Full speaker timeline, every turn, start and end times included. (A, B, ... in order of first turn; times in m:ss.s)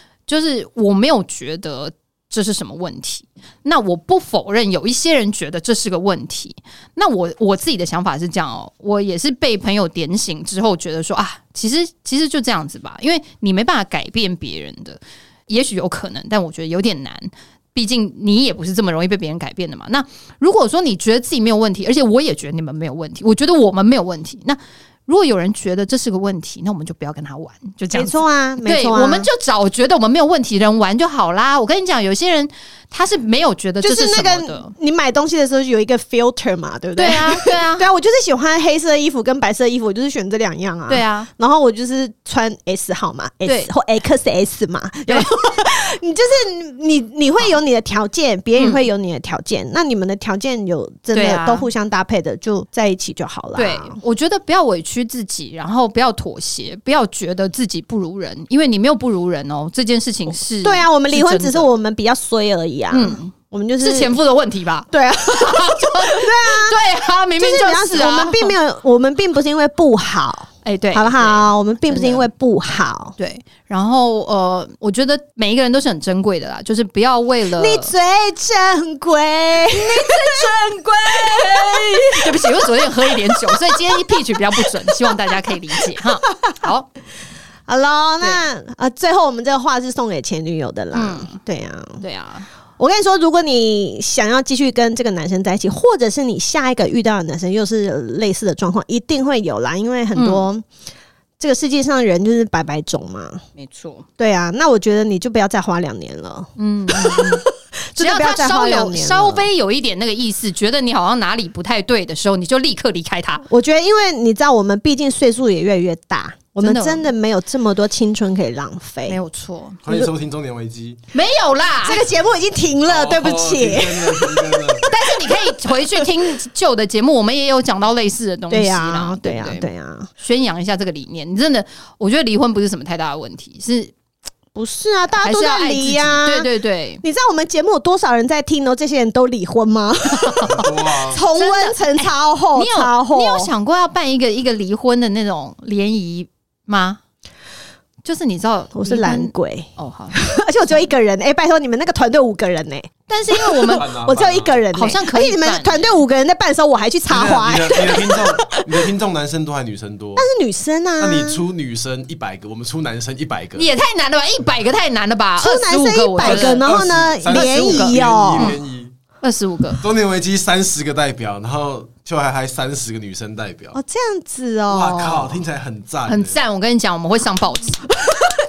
0:00.3-0:34.7 A
0:27.9-0:29.3 B
0:33.8-0:54.0 B
0:37.0-0:37.9 A
0:40.9-0:41.3 A
0:48.6-0:48.8 A
0:51.1-0:51.7 A
0:53.5-1:01.7 A
1:00.6-1:04.2 B
1:02.9-1:08.5 A
1:04.9-1:06.8 B
1:07.4-1:13.1 B
1:10.6-1:12.3 A
1:13.2-1:17.9 A
1:17.6-1:22.6 B
1:19.7-1:20.5 A
1:21.0-1:26.9 A
1:23.3-1:23.7 B
1:27.6-1:32.0 B
1:30.9-1:31.4 A
1:32.0-1:32.5 A
1:32.8-1:40.6 B
1:40.1-1:40.5 A
1:41.4-1:43.4 B
1:43.6-1:44.0 A
1:44.2-1:49.5 B
1:46.6-1:47.4 A
1:48.0-1:53.4 A
1:53.5-1:59.2 B
1:56.6-1:57.1 A
1:59.1-1:59.8 A
1:59.8-2:01.0 C
2:01.1-2:02.1 A
2:01.8-2:05.3 B
2:02.8-2:04.9 C
2:04.9-2:13.9 A
2:08.5-2:10.1 B
2:14.5-2:23.5 B
2:15.2-2:17.0 A
2:20.2-2:20.5 A
2:20.5-2:21.2 C
2:21.1-2:27.0 A
2:28.0-2:30.8 A
2:28.7-2:38.5 B
2:33.1-2:33.9 A
2:33.6-2:34.6 C
2:34.7-2:36.0 A
2:37.1-2:40.3 C
2:40.2-2:41.4 B
2:41.0-2:43.7 C
2:43.5-2:46.7 A
2:45.4-2:48.5 B
2:46.2-2:48.9 C
2:47.3-2:48.6 A
2:49.2-2:49.8 A
2:49.8-2:53.8 C
2:53.7-2:55.5 B
2:54.7-2:56.4 C
2:56.1-2:57.9 A
2:57.9-2:58.3 B